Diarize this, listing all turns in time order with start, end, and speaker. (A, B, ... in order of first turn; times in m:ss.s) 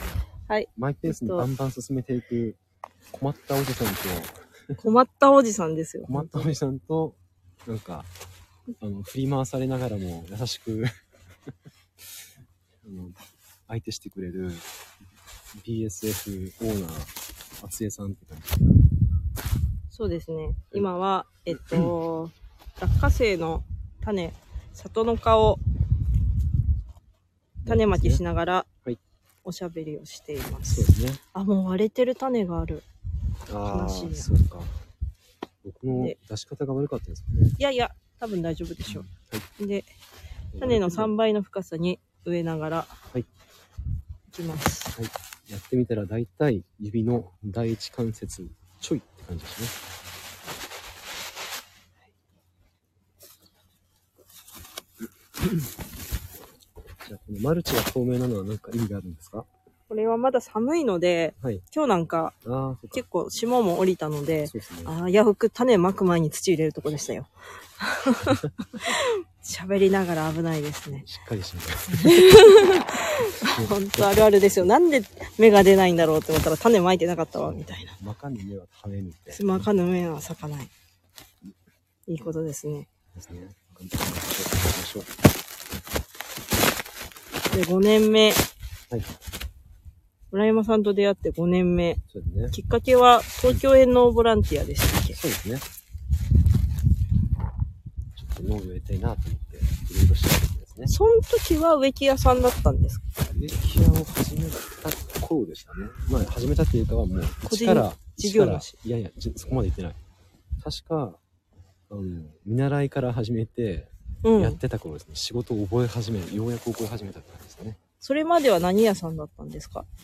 0:00.5-0:01.5 A
0:00.8-0:02.6 B
0:03.1-0:04.8 B
0:04.8-0:06.5 A
0:06.0-0:08.1 B
0:08.8-0:10.9 B
0:12.8-0:14.7 B
0:15.5-0:18.7 B
0:19.9-0:25.6 A
0:21.5-0:21.9 B
0:27.6-0:28.2 B
0:27.6-0:28.7 A
0:29.4-0:32.8 A
0:30.7-0:31.2 B
0:33.5-0:34.7 B
0:33.6-0:34.3 A
0:35.6-0:37.6 B
0:35.9-0:36.2 A
0:37.6-0:39.9 A
0:38.8-0:39.5 B
0:40.5-0:41.1 B
0:40.6-0:43.0 A
0:44.3-0:44.9 A
0:44.9-0:49.7 B
0:55.4-0:55.7 B
0:57.0-0:59.5 B
0:59.9-1:02.3 A
1:02.4-1:03.0 B
1:02.9-1:11.0 A
1:04.5-1:04.9 B
1:10.9-1:14.1 B
1:11.9-1:18.0 A
1:17.4-1:19.7 B
1:19.3-1:20.7 A
1:22.1-1:22.9 A
1:23.1-1:25.1 B
1:27.5-1:28.4 A
1:30.3-1:32.0 A
1:32.1-1:32.5 B
1:32.5-1:35.2 A
1:35.1-1:35.6 B
1:38.2-1:40.9 B
1:40.9-1:43.1 A
1:43.2-1:50.0 B
1:47.5-1:48.7 A
1:50.6-1:51.2 B
1:51.9-1:57.8 B
1:54.2-1:54.6 A
1:58.0-1:59.9 A